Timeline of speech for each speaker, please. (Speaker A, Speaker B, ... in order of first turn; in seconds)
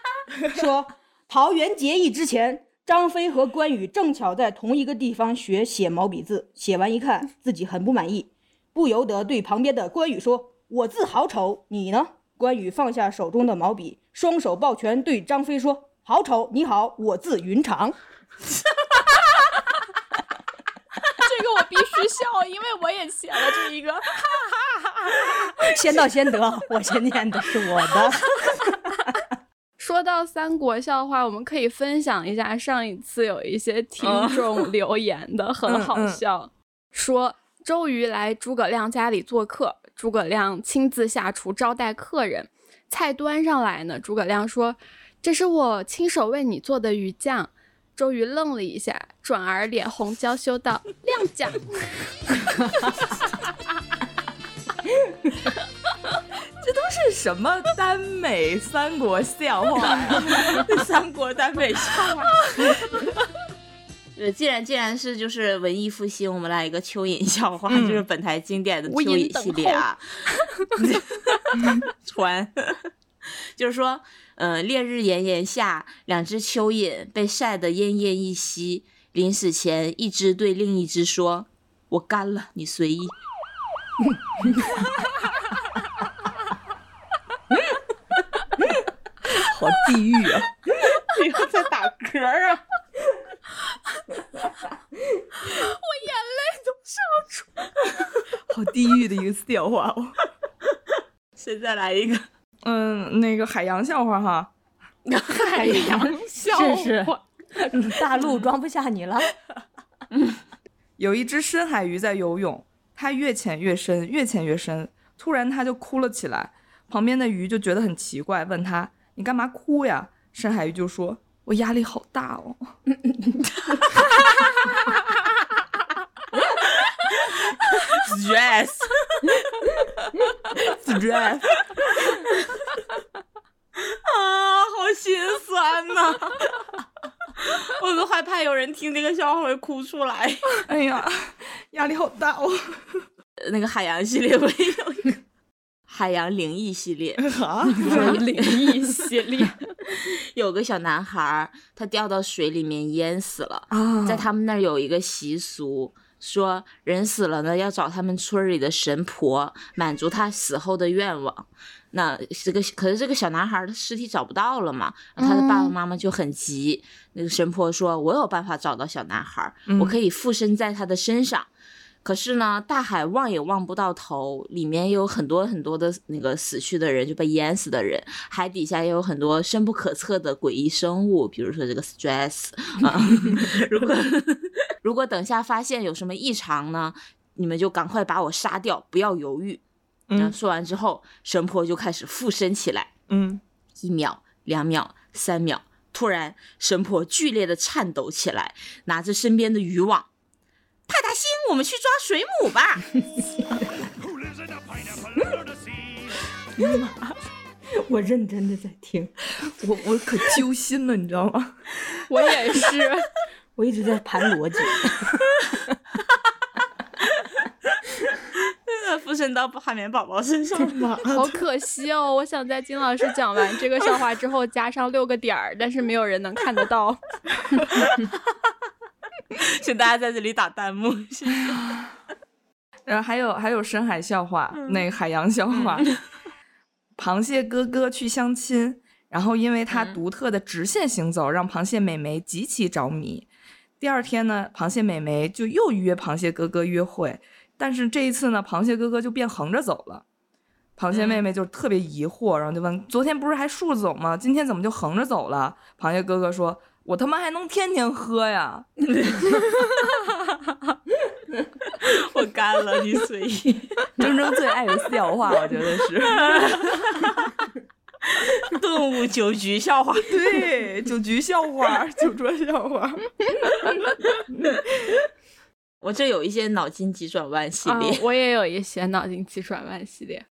Speaker A: 0.5-18.0, 25.6-28.2, 105.4-109.3, 203.4-203.7, 206.6-207.0, 207.8-209.1, 213.6-215.3
Speaker B: 21.1-25.0, 28.4-28.7, 29.8-52.7, 68.9-69.8, 95.4-97.7, 105.3-107.2, 147.8-149.7, 165.2-165.7, 212.1-213.1, 221.1-227.0, 277.6-280.2
Speaker C: 34.0-34.7, 60.3-62.8, 64.2-70.0, 70.8-83.1, 90.8-92.6, 101.4-102.2, 105.1-105.6, 126.6-129.7, 133.8-136.5, 137.4-140.4, 143.4-145.2, 145.9-147.2, 147.8-148.6, 149.9-171.5, 172.0-189.6, 190.2-192.9, 193.8-200.1, 200.9-202.9, 218.3-221.4, 229.3-231.6, 234.5-234.8, 235.5-235.9, 239.7-240.0, 250.9-251.2, 261.8-264.0, 266.1-267.1, 268.1-270.2, 275.8-278.0
Speaker D: 35.6-36.2, 56.6-60.6, 67.7-68.0, 89.3-90.5, 98.5-100.2, 102.6-104.5, 111.0-122.7, 130.7-131.4, 140.6-143.0, 147.2-148.2, 153.7-154.3, 169.7-169.9, 190.1-190.3, 193.1-193.4, 209.6-211.6, 231.5-231.8, 232.9-235.9, 237.0-243.3, 243.8-250.0, 250.8-258.7, 264.0-266.9, 270.0-273.7, 274.3-274.6